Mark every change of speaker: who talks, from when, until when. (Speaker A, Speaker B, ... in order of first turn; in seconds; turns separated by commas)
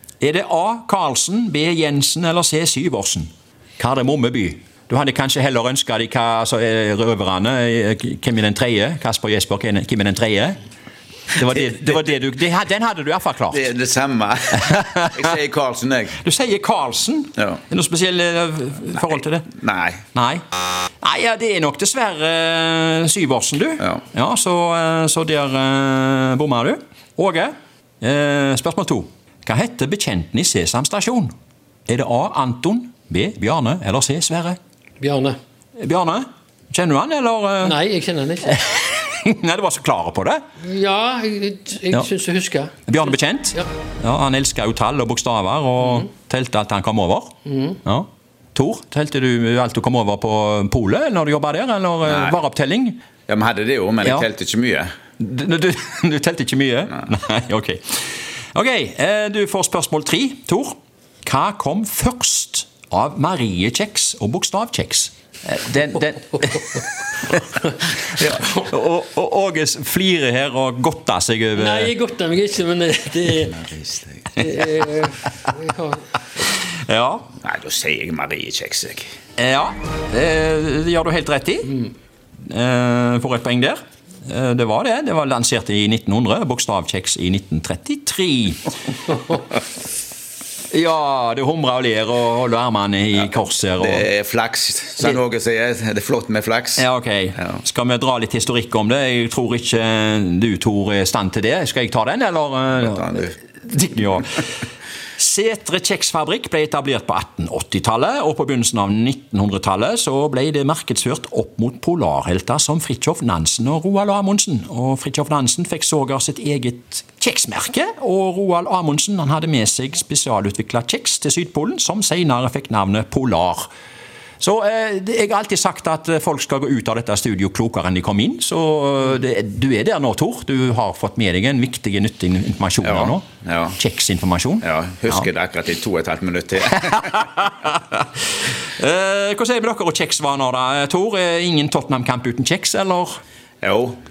Speaker A: 0.2-10.6, Speaker A: 11.3-13.7, Speaker B: 11.4-11.9, Speaker B: 13.5-16.2, Speaker A: 14.6-15.3, Speaker A: 16.2-19.5, Speaker B: 19.6-20.0, Speaker A: 20.1-20.4, Speaker A: 21.0-31.3, Speaker A: 31.9-34.6, Speaker C: 35.0-35.4, Speaker A: 35.8-37.8, Speaker C: 37.6-38.6, Speaker A: 38.5-40.4, Speaker C: 40.6-43.0, Speaker A: 42.9-47.3, Speaker C: 47.5-47.8, Speaker A: 47.9-53.0, Speaker B: 52.0-52.4, Speaker B: 53.3-54.9, Speaker A: 55.2-67.5, Speaker A: 68.1-71.9, Speaker C: 71.5-73.6, Speaker B: 73.5-74.4, Speaker C: 74.4-76.1, Speaker A: 76.5-77.3, Speaker B: 77.4-79.1, Speaker A: 79.4-81.9, Speaker A: 82.5-88.6, Speaker A: 90.7-94.1, Speaker B: 93.8-96.9, Speaker A: 96.8-104.5, Speaker B: 102.9-103.3, Speaker A: 105.2-123.7, Speaker A: 124.4-133.3, Speaker B: 132.8-133.8, Speaker A: 133.8-135.3, Speaker B: 134.6-137.4, Speaker A: 137.4-138.1, Speaker A: 138.8-143.2, Speaker B: 143.6-144.0